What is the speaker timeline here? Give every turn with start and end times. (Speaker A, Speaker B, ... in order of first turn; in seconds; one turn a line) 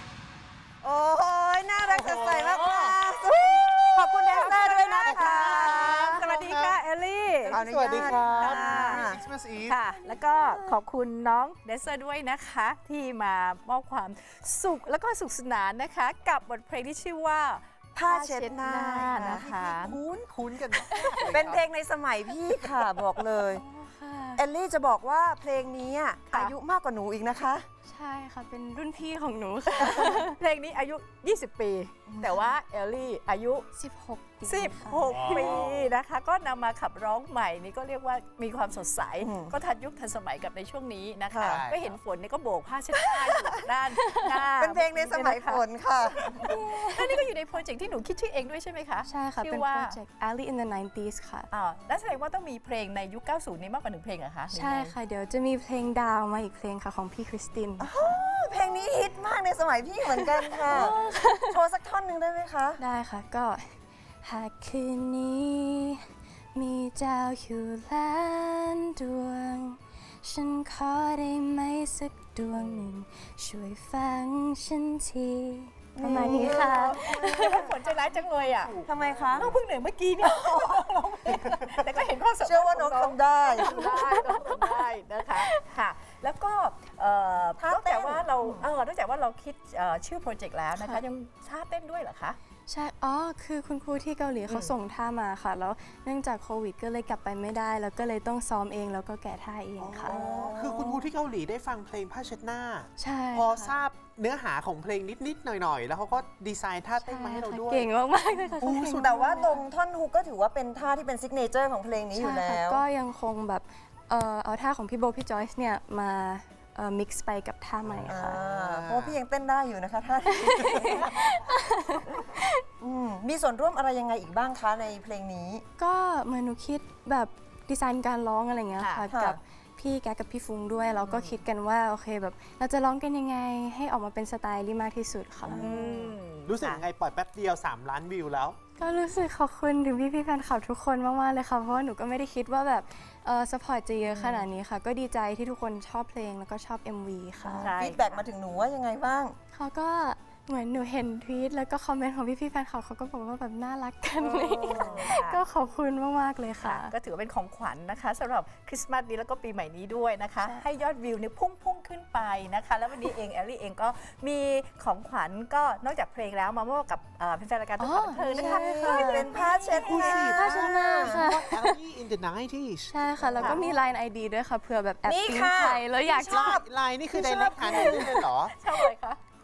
Speaker A: 0.8-6.1
Speaker B: 1.8-6.8
Speaker C: 5.0-9.0
Speaker B: 7.5-9.9
Speaker A: 7.5-9.2
Speaker C: 9.7-20.0
Speaker A: 10.0-10.7
Speaker A: 17.9-19.9
Speaker B: 19.7-21.6
Speaker C: 20.9-21.3
Speaker A: 21.3-23.6
Speaker D: 23.5-24.4
Speaker A: 24.4-27.6
Speaker D: 27.9-30.4
Speaker C: 30.3-33.6
Speaker A: 32.1-32.5
Speaker D: 33.7-35.6
Speaker C: 34.5-45.6
Speaker B: 35.1-35.9
Speaker A: 39.2-39.5
Speaker A: 41.3-41.6
Speaker B: 41.4-41.9
Speaker A: 44.6-46.5
Speaker D: 46.4-47.2
Speaker C: 46.8-50.0
Speaker D: 49.0-51.5
Speaker C: 51.5-54.9
Speaker D: 54.5-57.9
Speaker A: 57.8-62.8
Speaker D: 60.1-61.5
Speaker D: 62.8-66.0
Speaker D: 66.5-77.7
Speaker A: 75.9-77.7
Speaker C: 77.3-78.8
Speaker B: 77.8-79.6
Speaker A: 78.8-79.5
Speaker C: 79.3-92.4
Speaker A: 80.2-80.8
Speaker A: 82.4-84.0
Speaker D: 83.6-84.5
Speaker A: 87.6-88.7
Speaker D: 90.8-91.0
Speaker D: 92.7-100.2
Speaker C: 94.5-94.7
Speaker B: 99.8-109.4
Speaker A: 100.0-101.0
Speaker D: 103.0-103.8
Speaker D: 107.0-109.6
Speaker A: 108.7-112.8
Speaker D: 112.2-118.4
Speaker B: 117.8-119.2
Speaker A: 118.1-121.1
Speaker D: 120.3-122.5
Speaker B: 120.5-121.0
Speaker A: 122.8-125.6
Speaker D: 125.8-135.7
Speaker C: 128.8-129.1
Speaker A: 129.1-129.4
Speaker C: 131.0-131.3
Speaker A: 135.4-136.2
Speaker C: 135.5-136.8
Speaker B: 136.4-138.6
Speaker D: 138.8-147.7
Speaker C: 144.1-144.5
Speaker C: 147.4-148.3
Speaker A: 147.6-149.3
Speaker D: 149.5-156.9
Speaker C: 154.2-155.4
Speaker A: 154.6-155.1
Speaker C: 156.6-170.1
Speaker D: 167.8-169.3
Speaker A: 168.3-171.3
Speaker B: 169.5-173.0
Speaker D: 170.1-171.8
Speaker D: 172.9-176.6
Speaker A: 173.2-173.8
Speaker C: 173.4-173.6
Speaker A: 175.0-178.3
Speaker B: 176.3-178.5
Speaker C: 178.6-179.2